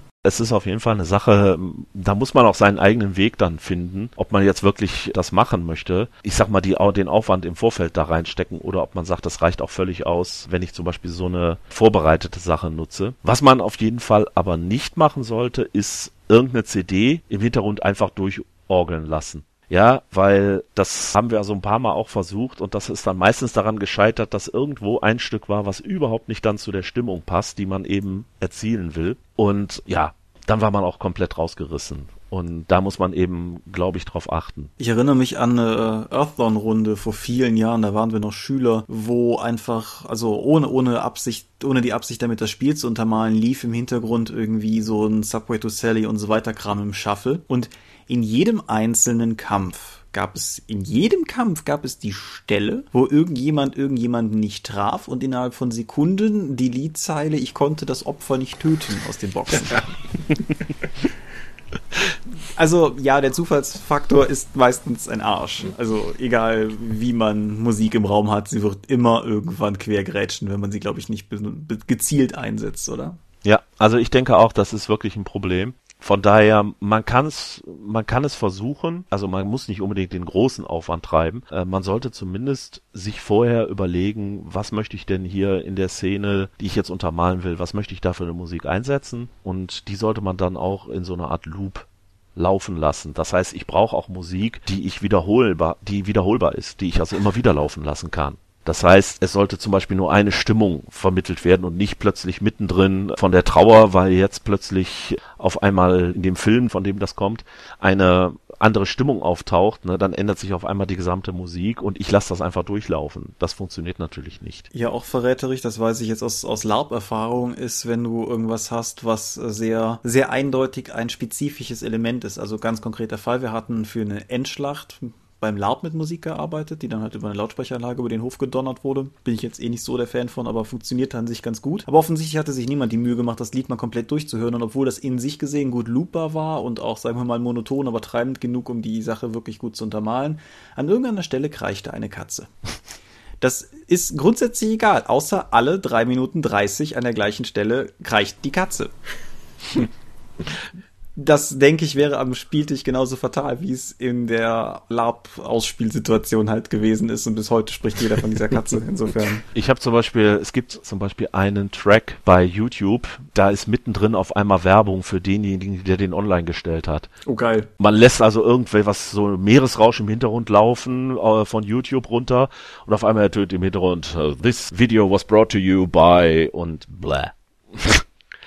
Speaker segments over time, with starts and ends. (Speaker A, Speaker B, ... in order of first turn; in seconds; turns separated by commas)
Speaker A: 0.2-34.7, Speaker B: 34.8-59.9, Speaker B: 62.5-73.2, Speaker A: 73.4-114.7, Speaker B: 114.7-142.5, Speaker B: 143.4-148.9, Speaker B: 151.2-159.4, Speaker A: 159.5-167.1, Speaker B: 167.2-167.7, Speaker A: 167.8-178.0